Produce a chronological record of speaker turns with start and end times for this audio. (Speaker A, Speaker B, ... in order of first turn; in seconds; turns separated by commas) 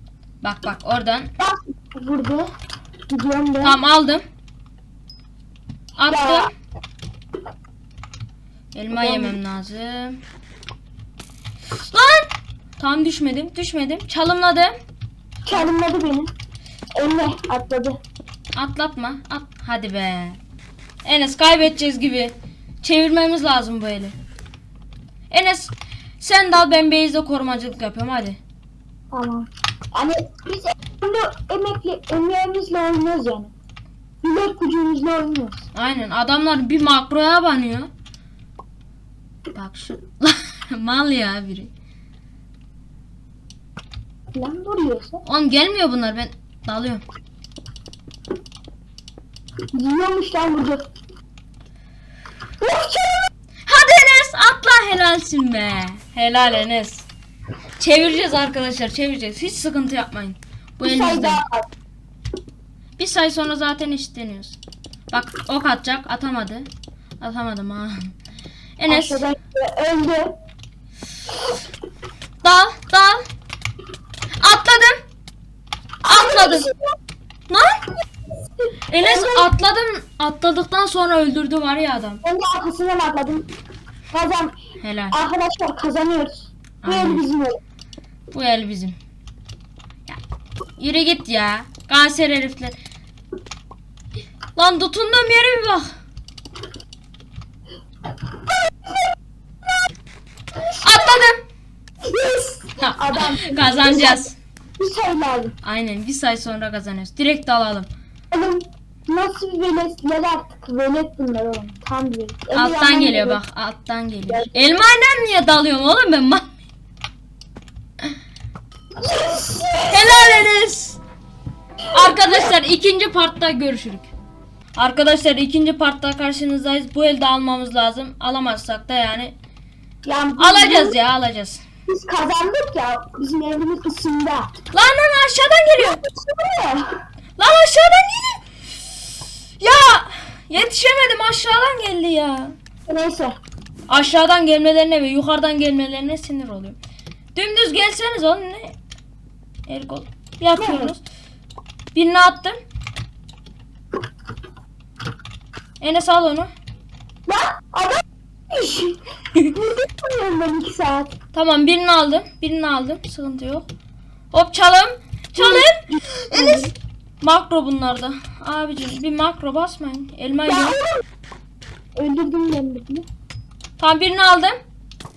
Speaker A: 0.4-1.3, Speaker B: 1.4-2.5, Speaker B: 3.1-3.8, Speaker A: 3.6-4.2, Speaker A: 6.0-6.5, Speaker B: 6.1-6.5, Speaker A: 8.7-10.2, Speaker B: 8.9-9.4, Speaker A: 11.8-14.7, Speaker B: 15.4-16.3, Speaker B: 17.0-18.0, Speaker A: 18.6-20.4, Speaker A: 21.0-24.1, Speaker A: 25.3-28.4, Speaker B: 29.1-33.5, Speaker B: 34.2-35.7, Speaker A: 35.7-37.9, Speaker A: 39.5-41.7, Speaker B: 44.3-45.2, Speaker A: 45.2-47.0, Speaker B: 49.7-50.8, Speaker B: 52.6-53.3, Speaker A: 53.7-57.1, Speaker A: 57.8-61.4, Speaker B: 60.8-61.7, Speaker A: 63.0-64.6, Speaker A: 65.1-66.7, Speaker A: 67.2-68.2, Speaker A: 68.8-69.2, Speaker B: 68.9-70.3, Speaker A: 72.4-73.2, Speaker A: 74.4-75.0, Speaker B: 76.0-76.8, Speaker A: 76.0-76.7, Speaker A: 77.5-77.8, Speaker A: 78.9-82.2, Speaker B: 79.0-79.5, Speaker B: 82.2-83.5, Speaker B: 84.1-84.6, Speaker A: 84.8-85.2, Speaker B: 85.1-87.6, Speaker A: 86.8-87.2, Speaker A: 88.3-89.0, Speaker A: 90.8-92.8, Speaker A: 94.6-95.9, Speaker A: 100.8-101.4, Speaker B: 102.0-104.2, Speaker A: 102.8-104.4, Speaker B: 104.8-105.5, Speaker A: 105.6-107.9, Speaker B: 108.3-113.4, Speaker A: 112.5-116.5, Speaker B: 114.3-114.6, Speaker B: 119.1-120.4, Speaker A: 119.9-121.0, Speaker A: 121.9-124.1, Speaker A: 124.8-129.3, Speaker B: 130.0-131.0, Speaker A: 130.4-131.6, Speaker B: 131.9-134.5, Speaker A: 134.7-136.0, Speaker B: 135.8-137.0, Speaker A: 137.4-138.4, Speaker A: 139.6-142.6, Speaker B: 142.9-143.4, Speaker A: 143.9-146.8, Speaker A: 147.3-148.8, Speaker A: 149.7-151.0, Speaker B: 150.6-150.9, Speaker A: 151.9-152.6, Speaker A: 155.8-156.5, Speaker B: 157.3-161.1, Speaker A: 161.3-163.7, Speaker A: 164.3-166.7, Speaker B: 165.4-166.7, Speaker A: 167.2-170.8, Speaker B: 170.5-171.0, Speaker B: 172.0-173.1, Speaker A: 173.8-174.6